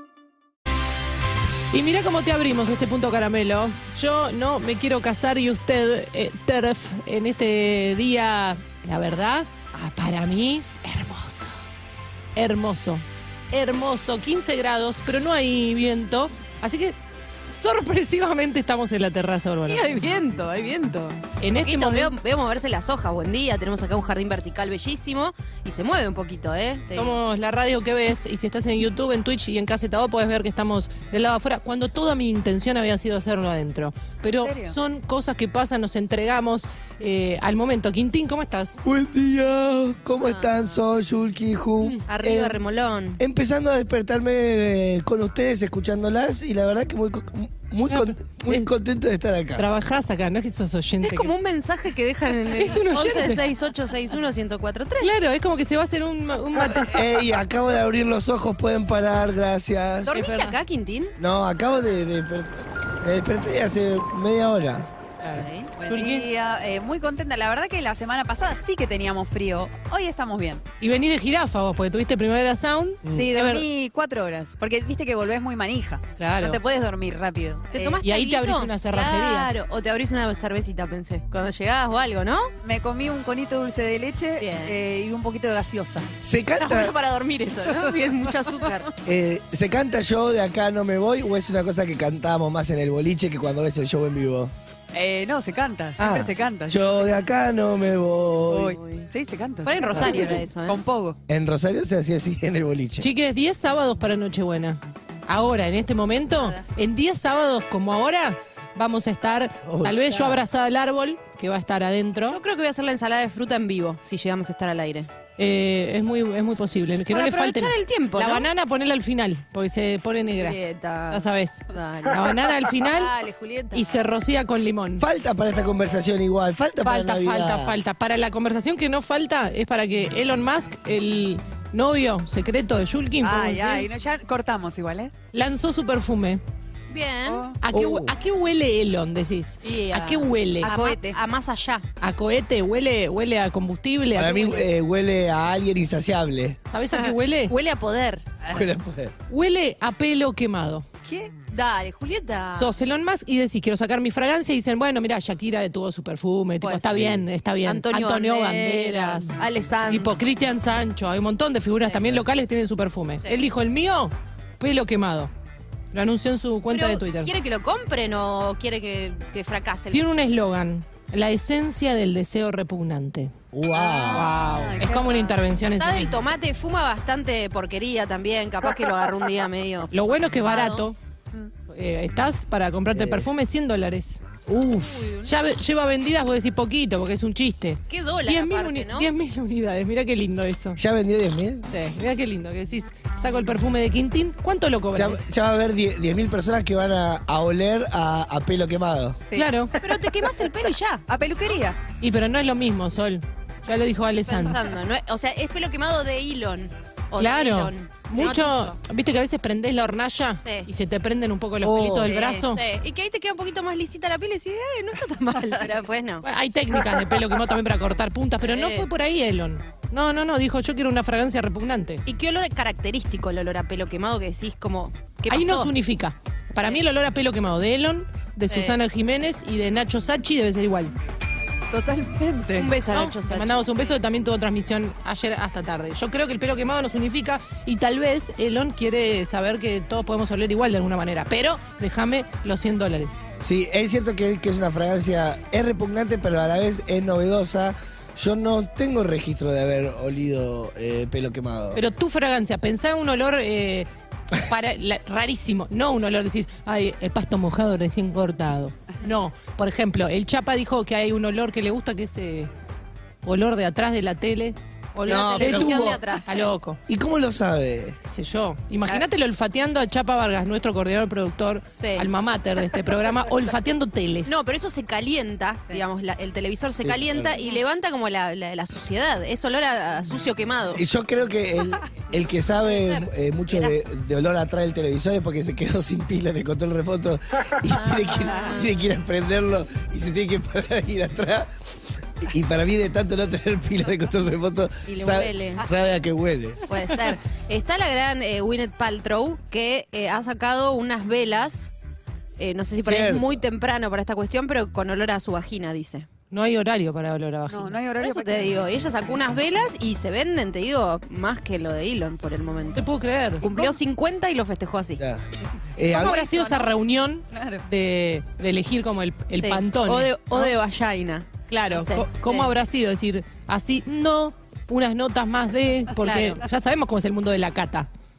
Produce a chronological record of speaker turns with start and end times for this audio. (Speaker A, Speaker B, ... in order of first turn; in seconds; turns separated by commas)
Speaker A: 1.7-11.6, Speaker A: 12.3-17.0, Speaker A: 17.5-19.9, Speaker B: 19.7-27.2, Speaker A: 21.4-22.1, Speaker A: 26.9-38.8, Speaker C: 34.4-34.8, Speaker D: 38.8-42.6, Speaker B: 40.2-40.6, Speaker B: 42.1-43.2, Speaker D: 43.2-49.7, Speaker A: 47.9-48.7, Speaker A: 49.6-51.3, Speaker B: 51.0-55.1, Speaker A: 52.4-53.4, Speaker A: 55.0-57.2, Speaker D: 56.5-60.1, Speaker A: 60.1-60.5, Speaker B: 60.1-61.1, Speaker D: 61.2-64.9, Speaker A: 65.2-66.3, Speaker B: 65.3-66.0, Speaker C: 65.9-70.6, Speaker A: 70.8-73.7, Speaker C: 73.1-78.0, Speaker A: 76.2-76.6, Speaker B: 77.7-82.5, Speaker A: 78.0-79.5, Speaker C: 82.6-86.1, Speaker B: 84.4-84.8, Speaker D: 86.2-87.0, Speaker B: 86.6-88.9, Speaker D: 89.1-94.5, Speaker C: 94.9-97.1, Speaker D: 96.0-98.7, Speaker C: 98.5-101.2, Speaker B: 98.7-99.1, Speaker B: 99.7-100.8, Speaker D: 101.3-103.1, Speaker A: 103.0-112.4, Speaker B: 106.3-106.6, Speaker D: 109.6-110.4, Speaker B: 112.3-115.1, Speaker A: 115.4-120.6, Speaker B: 117.1-118.5, Speaker B: 120.4-124.0, Speaker A: 121.1-123.1, Speaker A: 123.7-125.1, Speaker D: 125.0-127.8, Speaker A: 126.8-133.8, Speaker C: 133.2-135.1, Speaker A: 135.3-136.4, Speaker B: 136.9-137.5, Speaker C: 137.3-137.6, Speaker A: 137.6-140.7, Speaker D: 137.7-138.1, Speaker B: 139.6-141.8, Speaker C: 139.9-141.2, Speaker A: 142.0-144.7, Speaker D: 144.1-146.6, Speaker A: 146.7-147.5, Speaker B: 146.9-148.3, Speaker C: 148.4-148.7, Speaker D: 148.5-149.1, Speaker A: 149.3-150.9, Speaker C: 151.1-151.3, Speaker B: 151.5-152.8, Speaker A: 152.6-159.3, Speaker B: 156.6-157.0, Speaker D: 156.9-157.3, Speaker B: 157.7-160.2, Speaker A: 159.9-165.3, Speaker B: 161.8-162.2, Speaker A: 165.9-167.3, Speaker B: 166.7-170.2, Speaker A: 169.9-173.3, Speaker D: 173.5-174.3, Speaker C: 173.7-175.4, Speaker A: 174.1-176.2, Speaker B: 175.7-180.9, Speaker A: 179.9-181.0, Speaker A: 181.7-184.2, Speaker D: 182.9-183.3, Speaker D: 184.5-185.1, Speaker B: 184.8-185.3, Speaker A: 185.2-190.8, Speaker B: 187.9-189.1, Speaker D: 190.8-191.7, Speaker A: 191.7-195.2, Speaker D: 194.9-199.2, Speaker A: 199.3-199.7, Speaker B: 199.8-201.1, Speaker C: 201.1-201.8, Speaker A: 202.0-204.6, Speaker B: 204.2-208.8, Speaker A: 207.2-212.6, Speaker D: 211.6-212.2, Speaker B: 212.1-216.2, Speaker A: 216.2-222.0, Speaker B: 218.4-218.9, Speaker B: 222.1-225.8, Speaker A: 225.3-230.9, Speaker B: 226.6-226.8, Speaker B: 228.5-228.8, Speaker C: 231.7-232.7, Speaker B: 232.6-234.0, Speaker A: 232.9-243.2, Speaker D: 243.4-251.8, Speaker A: 251.7-262.5, Speaker A: 263.2-266.8, Speaker D: 265.1-266.0, Speaker B: 265.1-266.5, Speaker D: 266.9-268.0, Speaker A: 268.1-274.3, Speaker B: 271.8-272.1, Speaker B: 274.3-280.8, Speaker D: 276.8-277.3, Speaker D: 280.7-291.5, Speaker B: 282.0-283.8, Speaker B: 287.7-288.7, Speaker D: 292.2-296.6, Speaker B: 294.9-295.7, Speaker B: 296.7-301.7, Speaker B: 302.4-306.1, Speaker D: 302.8-303.4, Speaker A: 306.3-307.8, Speaker C: 307.5-308.7, Speaker B: 308.0-312.9, Speaker A: 312.7-313.7, Speaker B: 313.4-315.0, Speaker D: 315.0-315.2, Speaker D: 315.8-316.1, Speaker C: 315.9-316.7, Speaker A: 315.9-320.5, Speaker C: 317.3-317.6, Speaker B: 319.3-322.5, Speaker A: 321.5-327.9, Speaker B: 325.9-326.4